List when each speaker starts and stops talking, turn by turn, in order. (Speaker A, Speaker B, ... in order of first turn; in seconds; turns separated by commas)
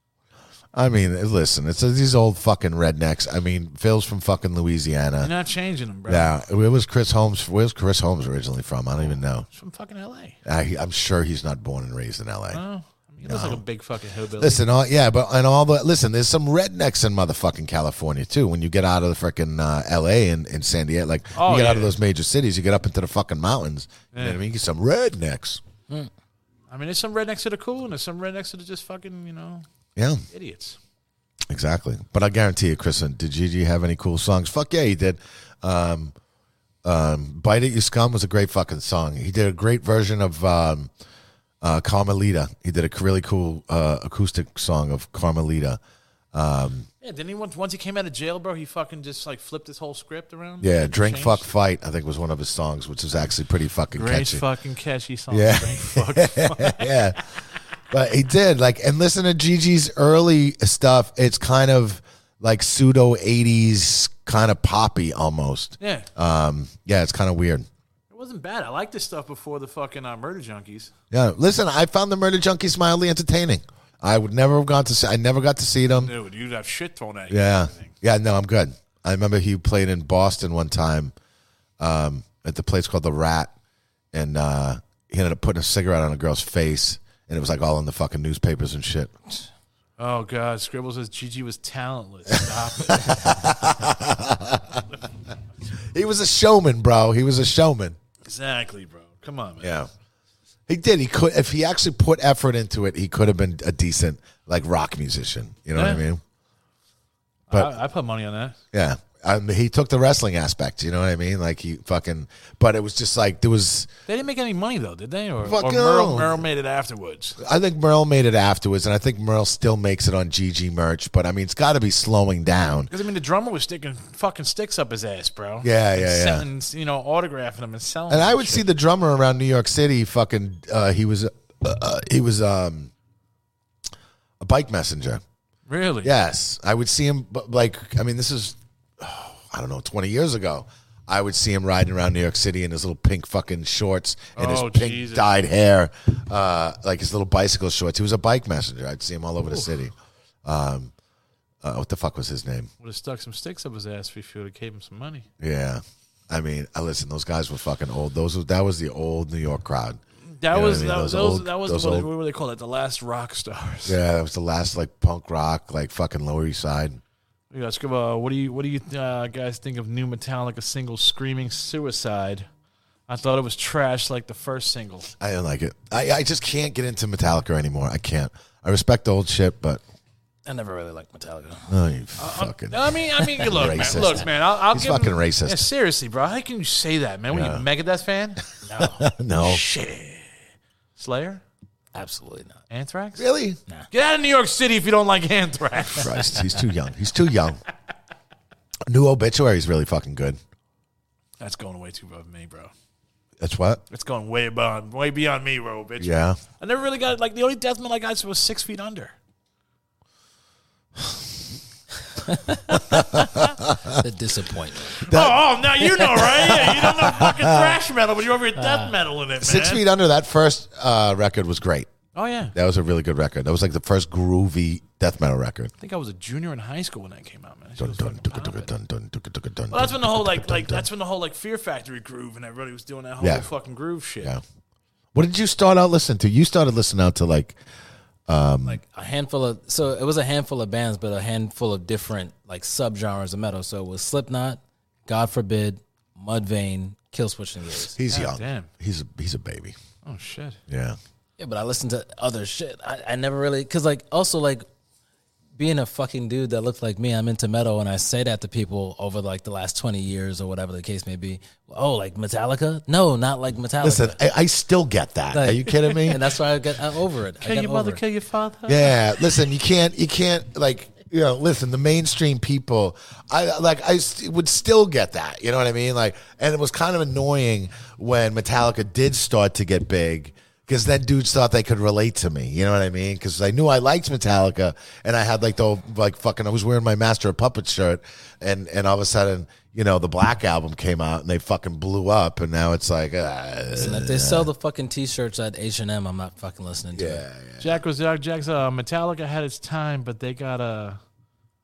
Speaker A: 0.7-5.3, Speaker B: 5.2-6.3, Speaker A: 6.1-9.4, Speaker B: 9.0-10.4, Speaker A: 10.4-12.6, Speaker B: 12.5-14.6, Speaker A: 13.2-13.6, Speaker A: 14.4-25.6, Speaker B: 21.3-21.9, Speaker B: 24.1-24.4, Speaker B: 26.7-29.6, Speaker A: 29.9-30.2, Speaker B: 30.3-30.8, Speaker A: 31.5-36.1, Speaker A: 36.8-40.9, Speaker A: 41.6-45.8, Speaker A: 46.3-46.9, Speaker B: 47.0-51.4, Speaker A: 50.6-54.4, Speaker B: 53.9-57.2, Speaker A: 55.3-57.2, Speaker A: 57.9-67.7, Speaker B: 65.8-66.1, Speaker B: 68.1-70.9, Speaker A: 71.1-76.1, Speaker B: 75.9-77.9, Speaker A: 77.3-81.1, Speaker A: 81.8-83.5, Speaker A: 84.1-89.1, Speaker B: 90.0-93.4, Speaker A: 92.8-94.9, Speaker A: 95.9-98.0, Speaker B: 98.2-99.8, Speaker A: 99.6-99.9, Speaker A: 100.7-106.2, Speaker B: 105.7-106.0, Speaker B: 107.5-108.6, Speaker A: 108.7-113.9, Speaker B: 114.1-117.4, Speaker A: 115.4-116.4, Speaker A: 117.4-122.9, Speaker B: 122.9-128.7, Speaker A: 125.6-126.4, Speaker A: 128.1-132.9, Speaker A: 134.4-135.2, Speaker B: 135.7-136.1, Speaker A: 136.0-150.9, Speaker B: 144.3-145.3, Speaker A: 151.6-152.7, Speaker B: 152.8-155.3, Speaker A: 155.4-160.0, Speaker B: 160.3-164.0, Speaker A: 160.5-162.1, Speaker A: 163.8-167.0, Speaker B: 167.5-172.5, Speaker B: 173.1-175.1, Speaker A: 175.2-179.8, Speaker C: 180.4-181.7, Speaker A: 181.7-185.6, Speaker B: 182.2-188.4, Speaker A: 187.3-187.7, Speaker C: 188.6-189.0, Speaker A: 188.8-189.6, Speaker B: 189.4-190.3, Speaker B: 191.0-191.4, Speaker C: 191.9-192.6, Speaker B: 192.7-193.2, Speaker A: 193.2-193.6, Speaker B: 193.9-196.3, Speaker A: 196.0-197.6, Speaker A: 198.9-200.4, Speaker B: 201.4-202.7, Speaker A: 203.4-203.8, Speaker B: 203.9-209.1, Speaker A: 206.0-206.4, Speaker C: 212.2-212.9, Speaker A: 212.9-214.0, Speaker C: 213.9-215.1, Speaker B: 215.0-219.8, Speaker A: 215.1-215.4, Speaker A: 215.9-217.8, Speaker C: 218.6-218.9, Speaker A: 219.4-221.9, Speaker B: 222.1-222.5, Speaker A: 222.5-225.7, Speaker B: 225.8-228.7, Speaker A: 227.8-230.8, Speaker B: 229.7-234.3, Speaker A: 233.2-233.5, Speaker A: 235.1-237.6, Speaker A: 238.3-238.8, Speaker C: 238.6-248.0, Speaker A: 247.9-249.8, Speaker B: 248.1-248.7, Speaker B: 250.0-250.6, Speaker A: 250.7-251.0, Speaker C: 251.4-254.6, Speaker C: 255.6-264.1, Speaker A: 263.8-266.3, Speaker C: 265.3-268.0, Speaker B: 267.4-269.3, Speaker A: 268.7-294.5, Speaker C: 293.7-297.2, Speaker A: 296.9-297.8, Speaker B: 297.6-301.0